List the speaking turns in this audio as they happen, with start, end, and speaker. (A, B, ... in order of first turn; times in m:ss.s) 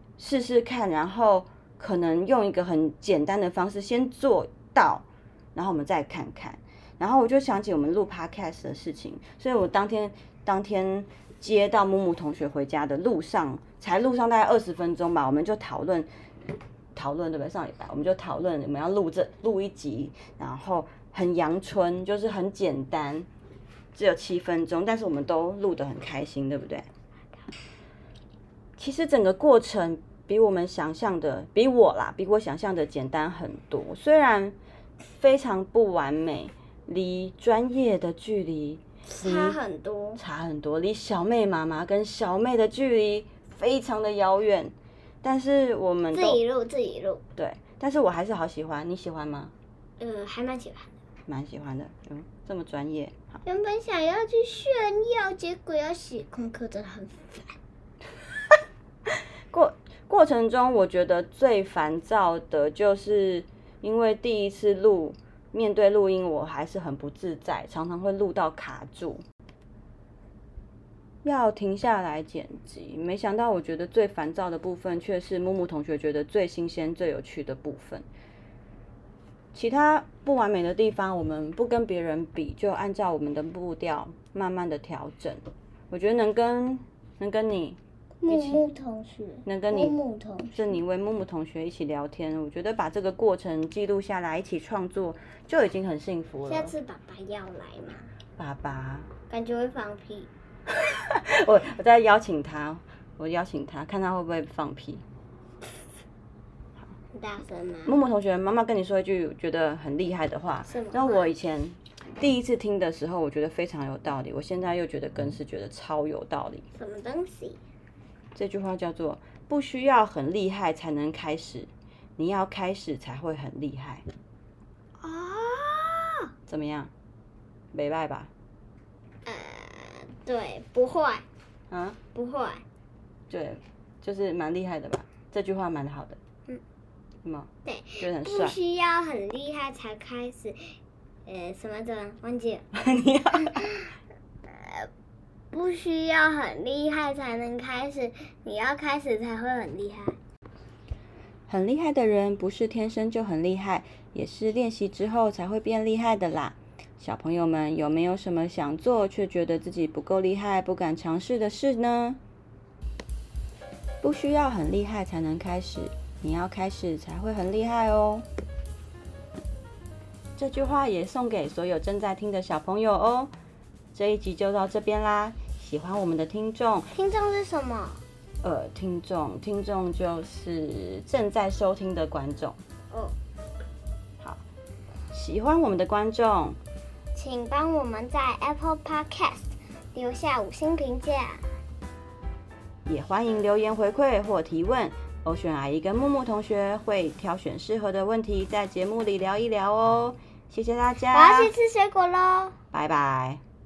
0:00.2-0:16.1 A
0:17.0-0:23.3 A
0:24.0-0:26.9 A
0:28.8-0:34.6 A
0:35.1-0:39.6 A
0:39.1-0:40.2 B
0:40.2-0:46.4 A
0:46.1-0:47.2 B
0:47.4-0:49.5 A
0:50.0-0:50.9 B
0:51.3-0:53.4 A
0:53.4-0:57.6 B
0:59.5-1:09.2 A
1:11.2-1:18.0 A
1:19.5-1:28.6 A
1:28.2-1:30.7 B
1:29.4-1:30.0 A
1:30.5-1:36.7 A
1:36.5-1:38.1 B
1:38.4-1:39.1 A
1:39.3-1:40.3 B
1:40.8-1:45.0 A
1:47.1-1:48.0 B
1:47.9-1:56.6 A
1:50.7-1:51.3 B
1:56.8-1:57.6 B
1:58.4-2:04.0 A
2:05.0-2:06.2 B
2:06.5-2:06.9 A
2:07.7-2:08.3 A
2:09.2-2:11.2 B
2:11.7-2:12.0 A
2:12.2-2:12.6 B
2:13.3-2:16.2 A
2:17.2-2:18.6 A
2:17.6-2:20.8 B
2:21.3-2:22.6 B
2:22.7-2:23.6 A
2:23.5-2:23.8 B
2:24.5-2:24.9 B
2:25.5-2:30.2 B
2:31.5-2:42.2 A
2:44.0-2:48.2 A
2:50.4-2:53.3 A
2:53.9-2:56.9 A
2:56.9-2:58.0 B
2:58.4-3:02.6 A
3:02.9-3:03.2 B
3:05.1-3:06.6 A
3:07.1-3:11.5 B
3:12.9-3:21.5 A
3:21.1-3:22.6 B
3:22.7-3:23.4 A